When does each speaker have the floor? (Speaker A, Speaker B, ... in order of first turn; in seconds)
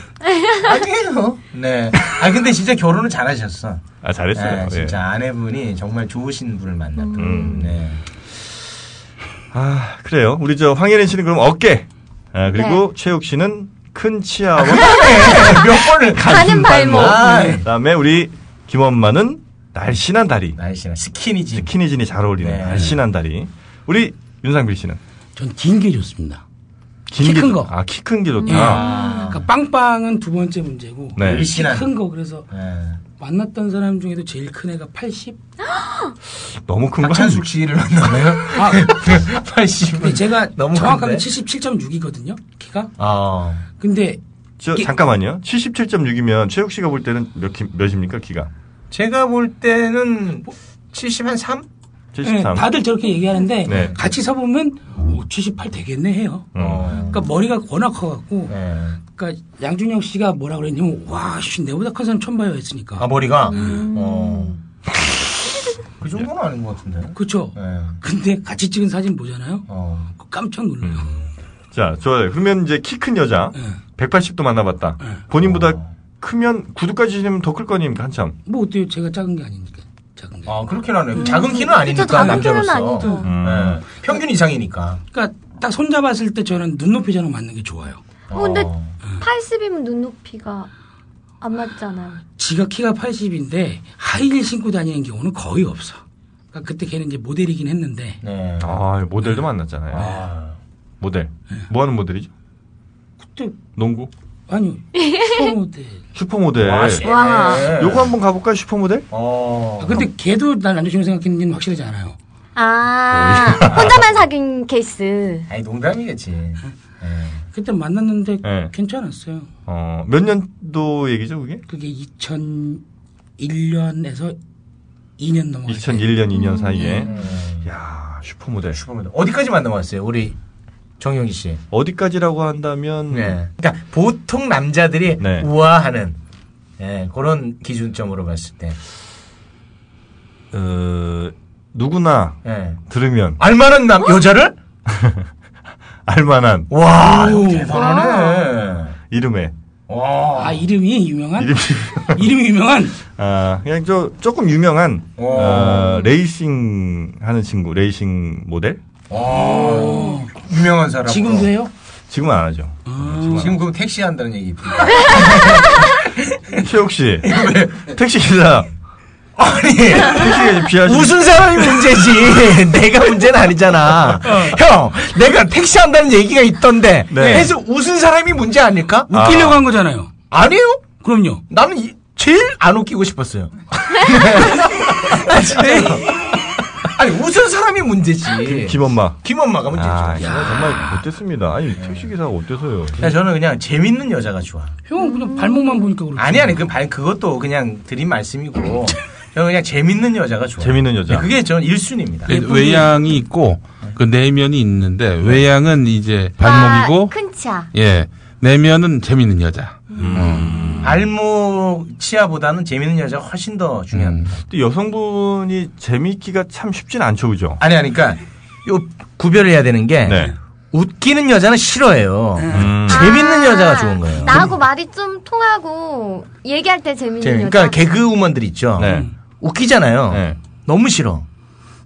Speaker A: 0.3-0.7, 7.0-7.7, 12.5-12.8, 16.2-17.5, 28.5-29.2, 63.5-64.6, 81.2-83.3, 88.3-90.7, 91.4-92.2, 105.0-105.5, 107.0-107.8, 112.6-115.5, 126.3-127.0, 147.7-148.5, 195.0-195.9, 206.4-207.7, 222.9-227.8
Speaker B: 0.6-3.8, 4.3-8.0, 14.6-16.2, 16.9-17.7, 20.6-21.7, 22.4-22.9, 28.6-29.4, 31.2-31.9, 32.5-33.0, 37.0-41.3, 43.0-43.6, 48.9-51.7, 53.7-54.0, 56.6-57.2, 58.5-59.0, 63.0-64.6, 66.0-68.0, 69.7-70.1, 75.4-75.9, 80.5-85.0, 88.3-89.0, 98.2-98.8, 99.9-100.6, 106.6-108.1, 109.1-110.0, 115.5-117.4, 127.0-127.7, 128.7-130.4, 131.0-131.6, 133.1-136.2, 136.8-138.8, 142.4-142.8, 143.4-144.6, 146.7-149.0, 149.9-150.6, 155.2-155.9, 159.1-161.5, 163.4-166.6, 167.2-167.9, 169.4-179.1, 180.3-180.9, 181.5-186.2, 186.8-190.7, 191.8-192.1, 193.0-194.8, 196.2-202.3, 210.8-214.4, 217.6-224.4, 227.2-231.3
Speaker C: 4.0-5.0, 7.2-7.8, 9.5-20.6, 21.6-25.0, 27.1-28.8, 31.2-31.5, 36.6-37.5, 44.6-48.5, 52.1-52.7, 53.7-54.0, 56.5-57.0, 70.8-71.2, 71.7-78.4, 83.2-83.8, 98.6-100.2, 101.0-102.3, 103.8-104.1, 106.2-107.0, 107.7-109.1, 113.1-114.0, 118.4-118.7, 119.7-121.6, 125.7-127.1, 127.6-128.8, 131.7-133.4, 135.2-135.5, 140.5-143.4, 144.9-145.2, 146.1-146.7, 149.1-149.5, 151.4-152.3, 153.1-158.8, 162.1-163.6, 166.6-168.7, 170.0-171.6, 177.1-177.5, 179.1-179.6, 188.5-193.1, 200.6-201.3, 210.0-211.0, 214.5-217.6, 220.1-220.3, 222.5-223.1, 228.8-229.1, 230.1-230.4
Speaker D: 17.2-17.6, 25.4-26.4, 27.2-27.7, 28.5-32.5, 33.2-35.4, 38.5-39.0, 40.0-42.9, 43.8-44.2, 52.2-63.8, 67.2-71.2, 78.5-80.5, 82.1-83.2, 85.1-88.0, 92.2-96.0, 96.5-98.2, 103.2-103.6, 104.5-106.0, 109.8-112.2, 117.5-119.5, 121.7-122.8, 123.4-124.4, 125.2-126.2, 147.0-147.8, 150.4-151.6, 152.1-153.0, 159.2-160.3, 161.1-161.7, 162.9-163.5, 174.3-174.6, 177.2-177.5, 179.1-180.1, 181.0-181.4, 185.6-186.1, 190.2-191.0, 194.9-196.6, 202.3-202.9, 222.4-222.7, 228.8-229.1
Speaker E: 202.3-207.1, 207.7-210.6, 213.9-214.3